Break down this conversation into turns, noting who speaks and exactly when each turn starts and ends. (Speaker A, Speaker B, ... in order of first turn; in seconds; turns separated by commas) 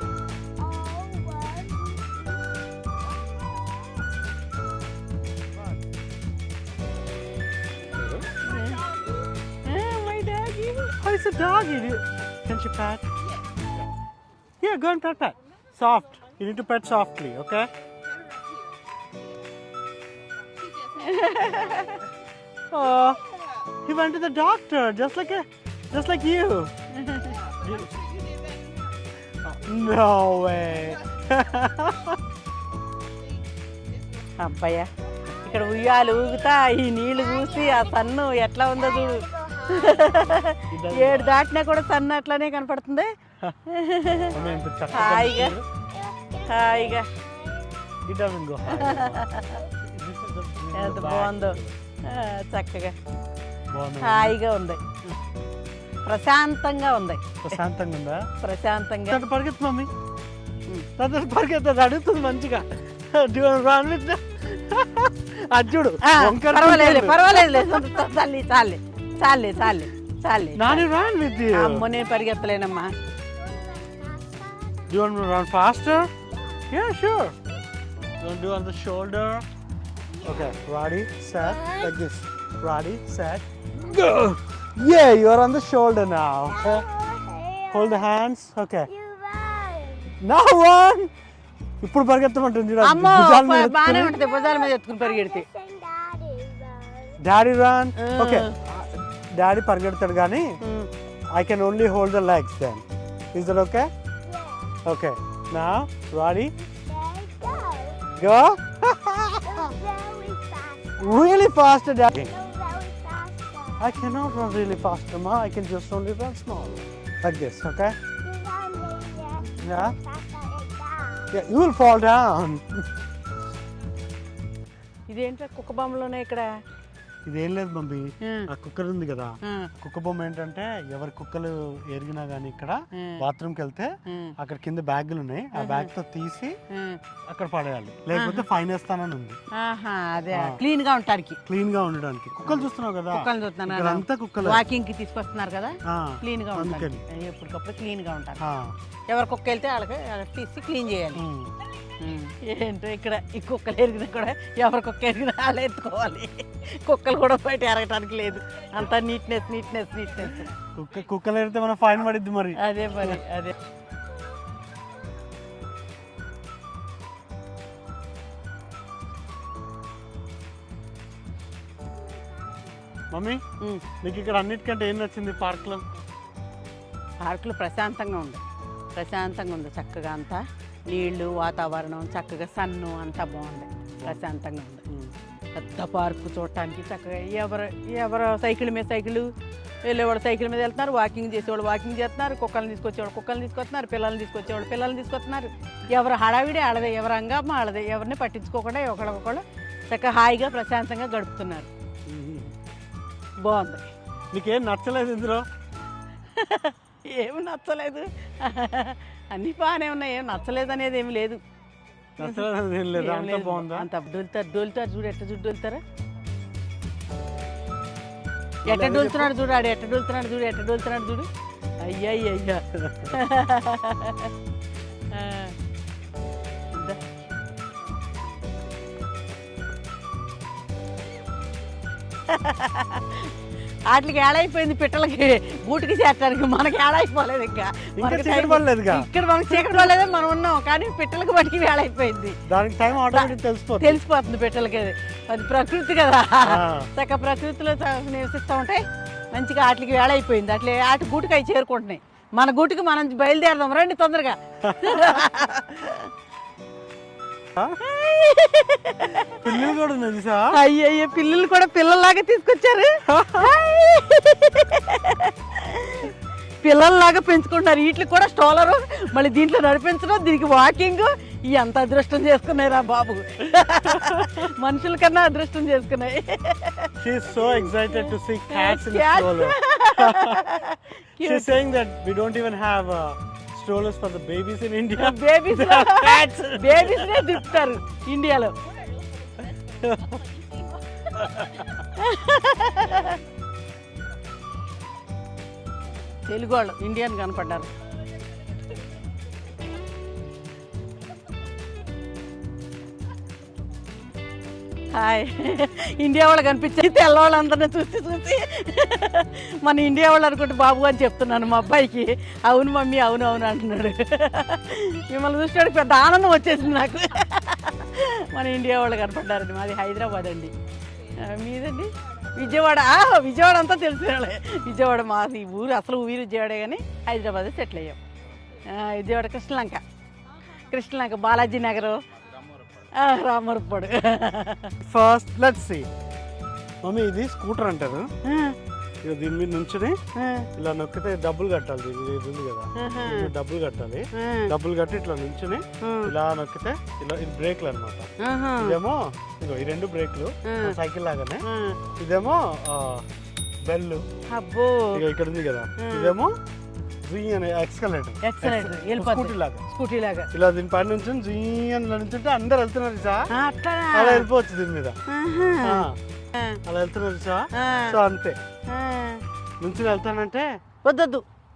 Speaker A: 0.6-2.4, Speaker B: 7.9-8.3, Speaker C: 8.4-8.9, Speaker C: 9.7-10.9, Speaker B: 11.0-13.0, Speaker B: 14.6-17.7, Speaker C: 20.9-22.1, Speaker B: 22.7-26.7, Speaker C: 26.9-27.4, Speaker B: 27.4-28.1, Speaker B: 29.4-32.2, Speaker C: 34.4-43.1, Speaker A: 39.2-39.9, Speaker B: 40.7-41.4, Speaker C: 43.7-44.4, Speaker B: 44.3-45.6, Speaker C: 44.9-45.6, Speaker A: 45.9-48.0, Speaker C: 46.5-47.1, Speaker B: 48.1-51.9, Speaker C: 48.7-49.6, Speaker C: 50.7-53.0, Speaker B: 53.7-54.4, Speaker C: 54.0-54.9, Speaker C: 56.0-57.6, Speaker B: 57.4-58.3, Speaker C: 58.4-59.2, Speaker B: 59.1-59.9, Speaker B: 61.0-67.9, Speaker C: 66.0-70.9, Speaker B: 70.5-71.9, Speaker C: 71.5-72.9, Speaker A: 73.4-74.8, Speaker B: 74.9-76.1, Speaker B: 76.7-77.4, Speaker B: 78.2-79.5, Speaker B: 80.2-86.9, Speaker A: 86.7-87.7, Speaker B: 87.7-88.9, Speaker A: 88.9-90.1, Speaker B: 90.2-91.1, Speaker B: 91.8-94.2, Speaker C: 92.8-95.5, Speaker A: 95.2-97.2, Speaker B: 97.2-100.5, Speaker C: 98.0-98.5, Speaker C: 100.6-100.9, Speaker B: 101.3-103.9, Speaker A: 104.3-104.8, Speaker B: 104.8-106.5, Speaker A: 106.7-108.1, Speaker B: 108.2-109.8, Speaker A: 109.5-111.1, Speaker B: 111.0-112.5, Speaker A: 112.4-113.8, Speaker B: 113.8-118.0, Speaker A: 118.2-121.3, Speaker B: 119.5-120.0, Speaker B: 121.3-122.9, Speaker C: 125.1-126.5, Speaker B: 127.2-136.6, Speaker C: 128.2-128.5, Speaker C: 129.4-129.7, Speaker C: 132.9-133.2, Speaker C: 134.1-134.4, Speaker C: 135.6-135.9, Speaker C: 136.7-137.0, Speaker B: 137.3-139.4, Speaker C: 138.1-138.5, Speaker C: 139.5-141.4, Speaker B: 140.3-140.6, Speaker B: 141.5-144.6, Speaker C: 142.4-148.4, Speaker B: 145.8-147.0, Speaker B: 148.4-148.7, Speaker C: 149.1-151.2, Speaker B: 151.2-151.5, Speaker C: 152.0-160.5, Speaker B: 160.6-163.1, Speaker C: 162.6-163.6, Speaker B: 173.1-173.4, Speaker C: 173.6-173.9, Speaker B: 174.0-175.8, Speaker C: 177.2-178.4, Speaker C: 178.9-184.8, Speaker C: 185.6-189.3, Speaker C: 189.8-201.7, Speaker B: 202.1-202.5, Speaker C: 203.4-203.9, Speaker B: 204.3-205.5, Speaker C: 206.3-211.4, Speaker B: 212.2-213.9, Speaker C: 212.2-215.8, Speaker B: 218.7-219.3, Speaker C: 218.7-221.3, Speaker C: 221.8-224.3, Speaker B: 222.8-223.2, Speaker C: 225.1-225.6, Speaker C: 226.7-227.0, Speaker C: 232.3-233.3, Speaker C: 233.9-242.4, Speaker B: 238.0-239.9, Speaker B: 242.5-244.0, Speaker C: 243.1-256.1, Speaker B: 246.4-246.9, Speaker B: 254.6-255.3, Speaker C: 257.8-259.7, Speaker B: 259.4-260.6, Speaker C: 260.5-281.6, Speaker B: 263.1-263.5, Speaker B: 273.6-274.5, Speaker B: 277.0-280.5, Speaker B: 281.2-287.6, Speaker C: 285.0-288.6, Speaker B: 289.7-290.2, Speaker B: 291.2-291.7, Speaker C: 291.8-293.2, Speaker C: 296.3-297.7, Speaker C: 304.9-320.5, Speaker C: 321.1-328.0, Speaker C: 328.6-329.8, Speaker C: 330.5-332.0, Speaker C: 332.9-334.8, Speaker B: 334.8-335.9, Speaker B: 336.8-338.1, Speaker C: 338.2-338.6, Speaker B: 339.0-340.0, Speaker C: 340.1-340.5, Speaker B: 340.6-351.4, Speaker C: 342.8-343.3, Speaker C: 344.1-344.5, Speaker C: 345.8-346.1, Speaker C: 348.2-348.8, Speaker C: 350.4-350.8, Speaker C: 351.4-351.8, Speaker B: 352.0-353.1, Speaker B: 353.6-354.0, Speaker C: 354.3-355.0, Speaker B: 354.9-356.4, Speaker C: 355.8-356.1, Speaker B: 357.1-359.6, Speaker C: 358.2-360.3, Speaker B: 360.3-363.3, Speaker C: 363.3-364.3, Speaker B: 363.9-365.0, Speaker C: 365.1-366.6, Speaker B: 365.6-366.0, Speaker B: 366.6-368.4, Speaker C: 367.5-368.0, Speaker C: 368.7-369.2, Speaker B: 369.6-370.5, Speaker C: 370.8-371.2